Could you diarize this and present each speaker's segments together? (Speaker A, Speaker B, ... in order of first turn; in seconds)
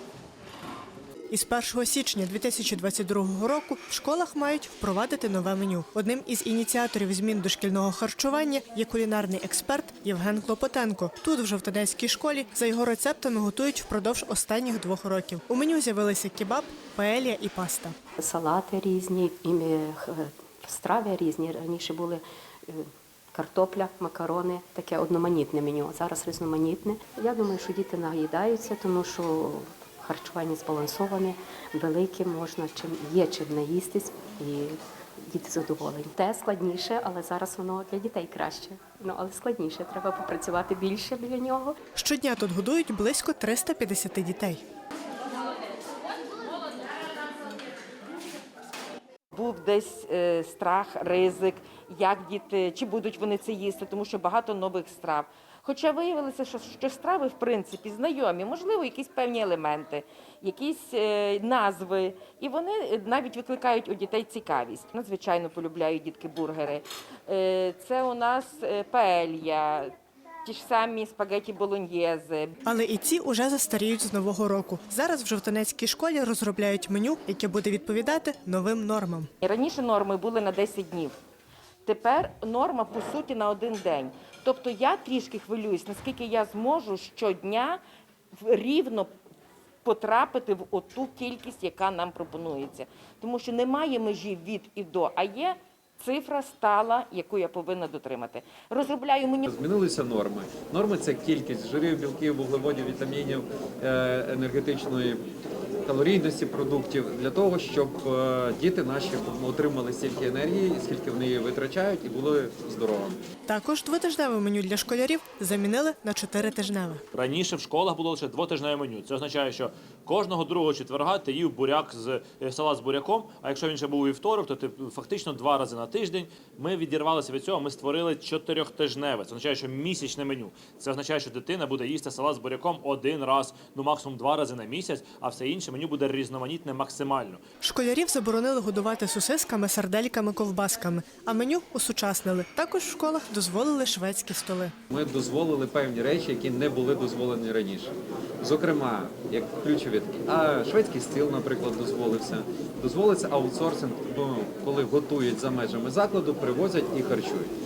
Speaker A: 1.3-17.9, 42.0-44.6, 72.6-79.3, 113.5-117.0, 137.6-144.7
Speaker B: 18.2-41.8
Speaker C: 49.3-69.9, 70.4-72.5, 79.4-81.1, 81.8-87.8, 88.3-89.1, 89.8-99.5
Speaker D: 99.5-105.2, 105.8-113.2, 144.9-157.5
Speaker E: 117.1-137.4